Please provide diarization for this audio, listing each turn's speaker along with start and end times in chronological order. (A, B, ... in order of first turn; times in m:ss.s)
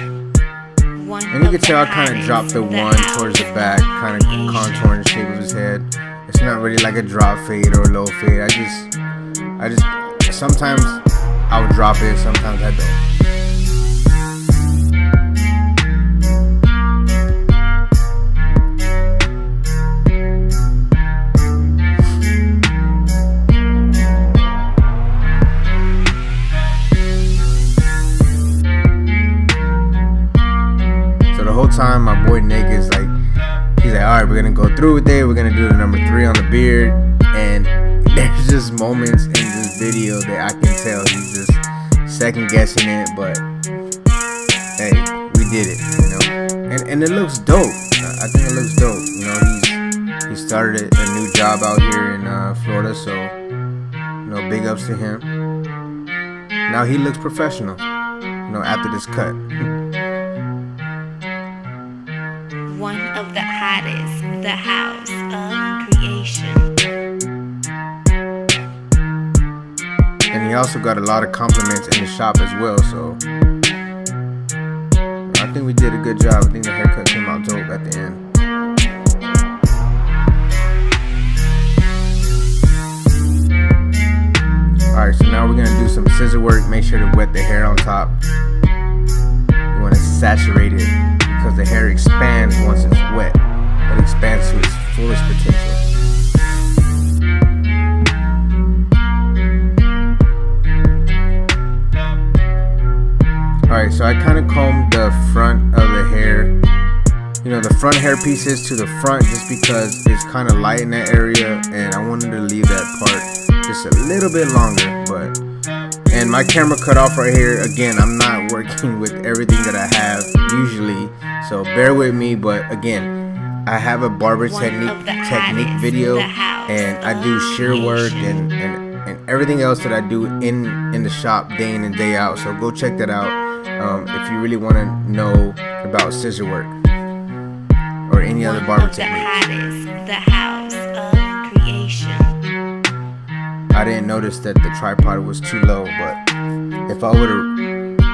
0:00.9-0:04.9 A
0:01.3-0:08.9 B
0:09.6-0:13.0 B
0:31.3-0:33.1 B
0:33.8-0:43.4 B
0:44.8-0:53.3 B
0:54.2-0:55.3 B
0:56.7-0:57.8 B
0:58.4-0:59.4 B
1:02.6-1:06.8 A
1:10.3-1:13.2 B
1:15.3-1:18.2 B
1:24.9-1:28.2 B
1:29.7-1:35.8 B
1:43.7-1:46.5 B
1:47.4-1:55.4 B
1:56.1-2:03.1 B
2:03.6-2:16.8 B
2:04.4-2:08.4 A
2:18.1-2:19.4 B
2:18.4-2:22.4 A
2:23.7-2:26.2 B
2:26.9-2:27.5 B